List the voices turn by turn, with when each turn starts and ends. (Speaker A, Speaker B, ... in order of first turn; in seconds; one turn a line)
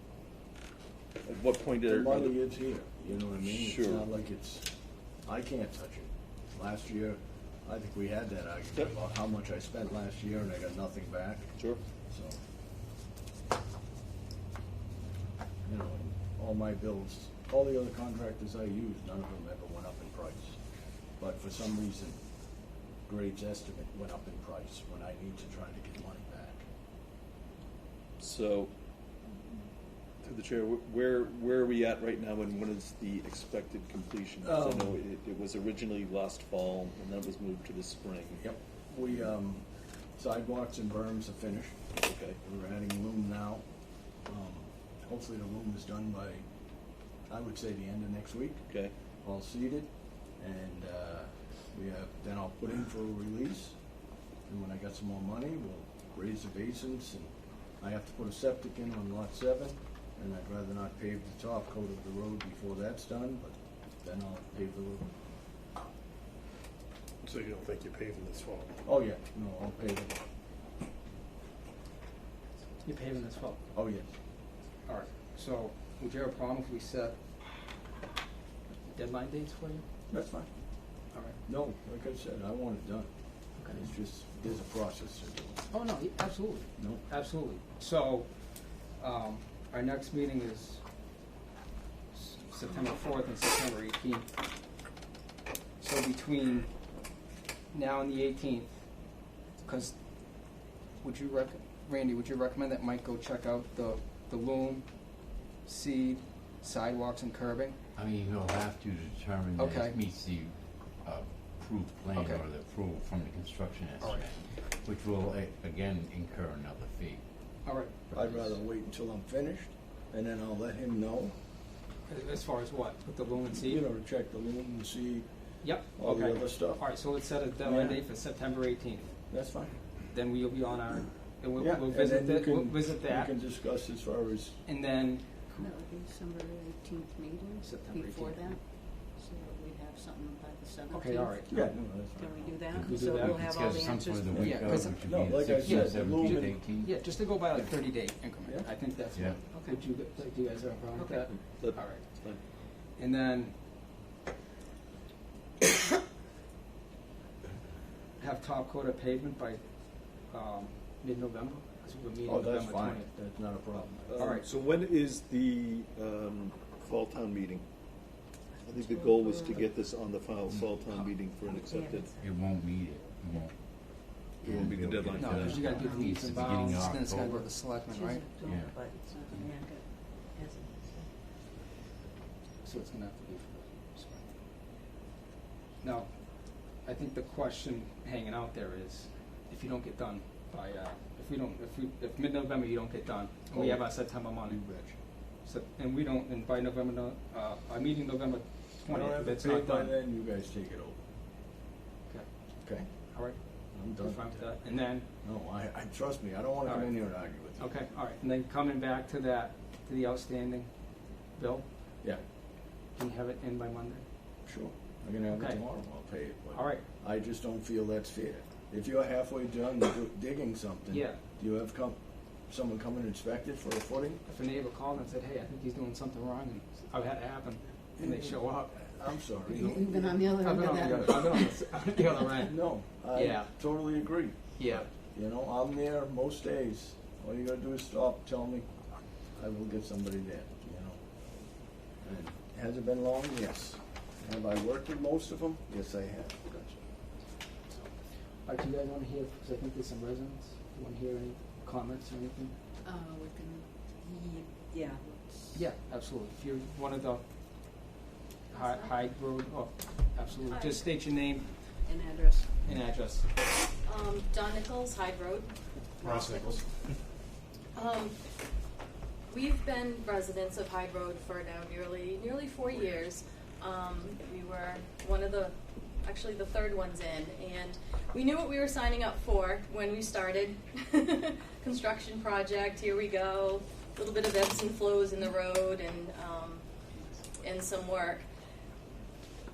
Speaker A: 1.2-2.3
Speaker B: 1.9-4.7
Speaker A: 3.4-4.1
Speaker B: 5.2-11.5
Speaker B: 12.1-12.4
Speaker B: 15.6-20.6
Speaker B: 21.2-22.2
Speaker B: 23.0-26.6
Speaker A: 28.2-28.7
Speaker A: 30.2-38.4
Speaker B: 34.4-35.0
Speaker B: 38.4-41.8
Speaker A: 42.0-42.4
Speaker B: 42.4-43.6
Speaker B: 44.2-46.5
Speaker B: 47.3-48.7
Speaker B: 49.2-53.8
Speaker B: 54.5-65.1
Speaker C: 67.2-68.8
Speaker B: 68.8-70.2
Speaker D: 72.8-73.6
Speaker B: 73.7-74.1
Speaker D: 74.8-77.2
Speaker D: 78.9-79.8
Speaker B: 80.1-80.5
Speaker D: 81.1-81.4
Speaker B: 81.5-85.6
Speaker D: 83.6-83.9
Speaker D: 85.7-90.8
Speaker B: 86.8-87.0
Speaker D: 92.1-94.3
Speaker D: 95.8-96.7
Speaker D: 97.7-100.0
Speaker D: 101.0-107.8
Speaker E: 107.9-118.5
Speaker D: 109.6-110.0
Speaker D: 112.1-112.5
Speaker D: 114.0-114.3
Speaker D: 117.6-118.5
Speaker B: 118.1-121.3
Speaker D: 122.1-123.8
Speaker B: 123.6-126.8
Speaker D: 125.6-129.1
Speaker B: 127.6-128.0
Speaker B: 129.3-129.8
Speaker D: 130.0-133.4
Speaker B: 131.6-134.6
Speaker D: 134.6-135.4
Speaker F: 135.5-144.5
Speaker D: 137.6-138.6
Speaker D: 140.9-141.7
Speaker B: 141.5-142.6
Speaker E: 142.7-147.0
Speaker D: 142.8-143.5
Speaker B: 144.3-146.6
Speaker D: 144.4-152.2
Speaker E: 149.1-149.4
Speaker F: 149.5-149.8
Speaker F: 150.9-151.2
Speaker A: 151.2-152.4
Speaker D: 152.8-153.5
Speaker D: 158.2-163.1
Speaker B: 162.2-164.2
Speaker A: 164.1-167.6
Speaker D: 164.2-164.4
Speaker A: 168.6-172.2
Speaker F: 168.7-169.6
Speaker F: 171.5-172.2
Speaker E: 172.1-177.5
Speaker A: 174.4-175.8
Speaker D: 175.2-178.4
Speaker F: 175.4-176.7
Speaker F: 177.9-181.1
Speaker E: 178.4-178.8
Speaker D: 182.6-184.4
Speaker D: 185.8-194.8
Speaker B: 193.5-195.0
Speaker D: 195.4-199.9
Speaker B: 198.8-201.0
Speaker D: 202.1-205.1
Speaker B: 202.6-202.9
Speaker B: 203.7-204.5
Speaker B: 205.2-207.7
Speaker D: 206.6-210.7
Speaker D: 211.3-211.7
Speaker D: 212.9-214.0
Speaker B: 214.4-224.2
Speaker D: 215.3-215.7
Speaker D: 216.5-216.8
Speaker D: 220.9-221.2
Speaker D: 224.3-233.9
Speaker B: 228.0-229.8
Speaker F: 229.5-232.1
Speaker B: 232.4-238.7
Speaker D: 234.6-234.9
Speaker B: 239.3-241.0
Speaker B: 241.5-246.4
Speaker D: 246.4-246.8
Speaker D: 248.4-252.5
Speaker F: 252.8-255.6
Speaker D: 255.5-257.9
Speaker D: 258.5-261.6
Speaker F: 258.5-259.0
Speaker G: 260.3-260.9
Speaker F: 261.7-262.6
Speaker D: 262.6-263.3
Speaker G: 263.8-266.7
Speaker C: 266.1-266.9
Speaker G: 267.7-268.2
Speaker G: 269.3-286.8
Speaker G: 287.4-288.2